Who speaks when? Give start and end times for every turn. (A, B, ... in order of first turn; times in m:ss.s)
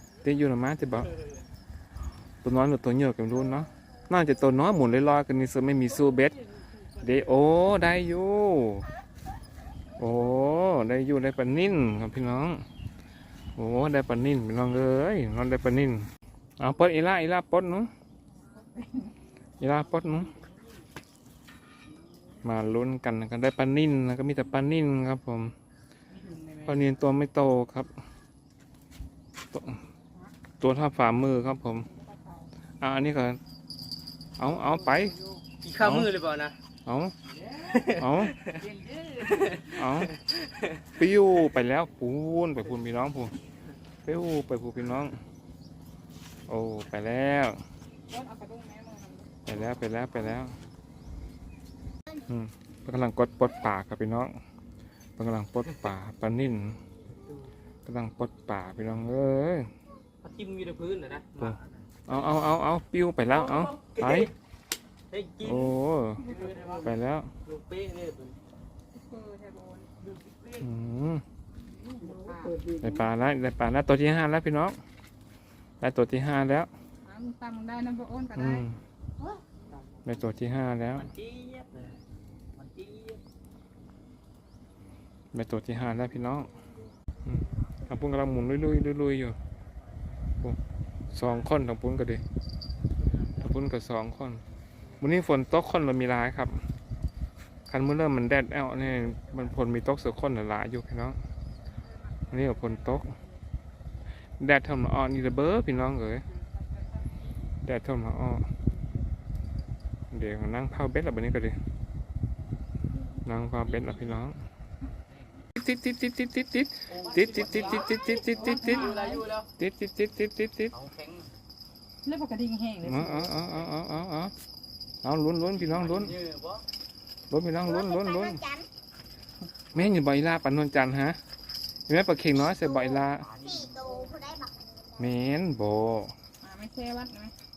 0:00.2-0:01.1 A
0:02.4-0:06.4 A
0:07.0-0:08.9 A
0:10.0-0:12.6 A
0:13.6-0:16.1 A
0:16.6-0:17.9 A
0:18.5-0:19.1 B
0:19.6-0:20.3 A
0:22.4-0:25.5 A
0:26.2-0:26.8 C
0:26.6-0:27.9 A
0:29.5-0:29.8 A
0:30.6-0:31.9 A
0:31.8-0:32.5 B
0:32.8-0:33.4 A
0:34.4-0:35.2 A
0:35.0-0:36.6 C
0:35.8-0:36.1 A
0:36.8-0:37.1 A
0:37.4-0:38.7 C
0:37.9-0:38.4 A
0:38.8-0:39.5 B
0:39.2-0:40.8 C
0:39.6-0:40.2 A
0:40.9-0:43.3 A
0:44.0-0:45.2 A
0:46.5-0:47.6 A
0:48.1-0:49.4 B
0:49.4-0:50.5 A
0:52.3-0:54.3 A
0:55.2-0:56.8 A
0:57.8-0:59.7 A
1:00.2-1:02.2 C
1:01.4-1:04.3 A
1:03.3-1:04.3 C
1:05.1-1:05.7 C
1:05.4-1:06.2 A
1:06.2-1:06.9 C
1:06.3-1:06.6 B
1:06.8-1:07.3 A
1:07.4-1:08.4 C
1:08.9-1:09.9 B
1:10.0-1:10.6 C
1:10.6-1:11.2 A
1:11.8-1:12.6 B
1:12.1-1:12.9 C
1:12.8-1:14.8 A
1:15.8-1:16.7 A
1:17.0-1:18.6 B
1:18.3-1:18.8 A
1:20.0-1:21.1 A
1:21.0-1:21.9 C
1:22.6-1:23.2 C
1:25.3-1:26.5 A
1:27.2-1:29.4 A
1:31.1-1:32.2 A
1:33.3-1:34.4 A
1:35.0-1:36.6 A
1:37.7-1:41.2 A
1:42.1-1:43.3 B
1:42.3-1:43.1 A
1:44.4-1:46.2 A
1:47.6-1:48.5 A
1:50.1-1:51.6 A
1:53.2-1:54.4 A
1:55.6-1:58.9 A
1:56.9-1:59.5 C
1:57.9-1:59.3 B
1:59.6-2:00.8 A
2:00.7-2:01.2 C
2:02.0-2:03.2 B
2:02.8-2:04.3 A
2:05.0-2:06.2 A
2:05.6-2:06.6 C
2:07.3-2:08.4 A
2:07.6-2:08.7 D
2:09.7-2:11.2 A
2:11.9-2:13.3 A
2:12.5-2:15.1 D
2:13.3-2:13.6 C
2:15.0-2:16.1 A
2:16.4-2:17.3 B